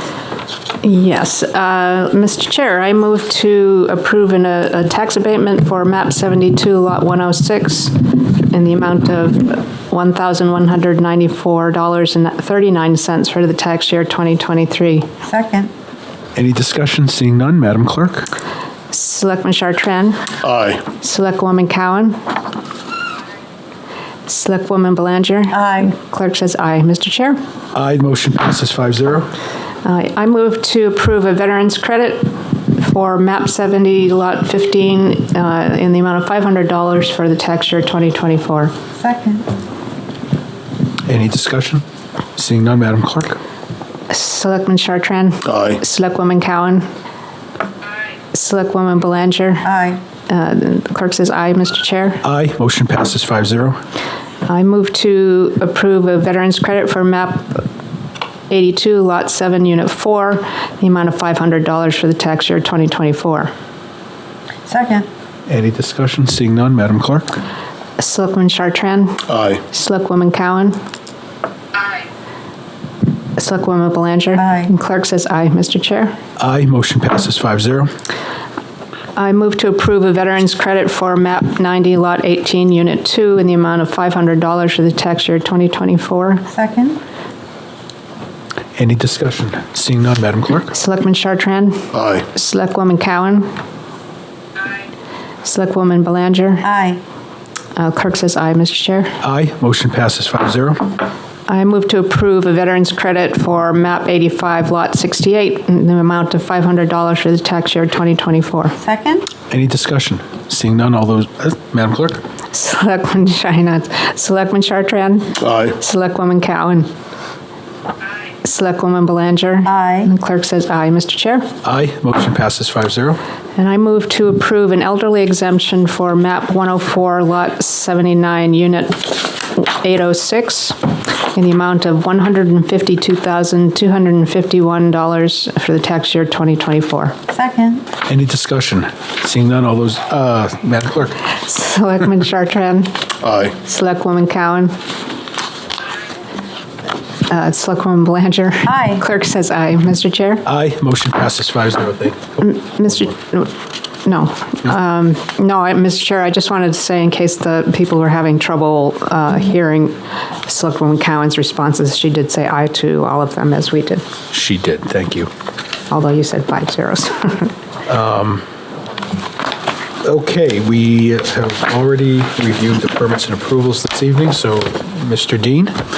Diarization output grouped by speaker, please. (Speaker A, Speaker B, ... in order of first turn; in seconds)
Speaker A: 0.8-15.1, 18.9-20.2, 20.9-22.2, 24.3-27.4, 29.8-38.7, 44.1-46.9, 48.3-52.2, 54.5-57.6, 58.5-63.5, 68.0-70.8, 73.3-76.2, 79.2-86.5, 90.7-93.5, 95.4-96.7, 97.8-99.1, 101.5-108.8, 112.5-116.9, 118.4-121.5, 123.5-130.8, 131.3-137.2, 141.3-144.8, 147.3-150.4, 152.4-164.0, 165.9-167.5
Speaker B: 15.2-15.7, 25.5-25.9, 39.0-39.4, 64.7-65.0, 74.4-74.7, 86.5-87.0, 96.6-97.0, 108.8-109.2, 119.7-120.1, 137.3-137.8
Speaker C: 16.3-18.3, 27.7-29.2, 41.0-41.8, 42.4-43.4, 52.2-53.8, 65.5-67.2, 76.4-77.9, 88.8-90.7, 99.2-100.8, 109.5-112.2, 121.6-123.2, 138.1-141.1, 150.4-152.2, 164.3-165.3, 167.9-168.4, 170.0-175.7
Speaker D: 20.4-20.8, 45.5-45.8, 69.3-69.6, 91.9-92.2, 115.5-115.7, 143.2-143.5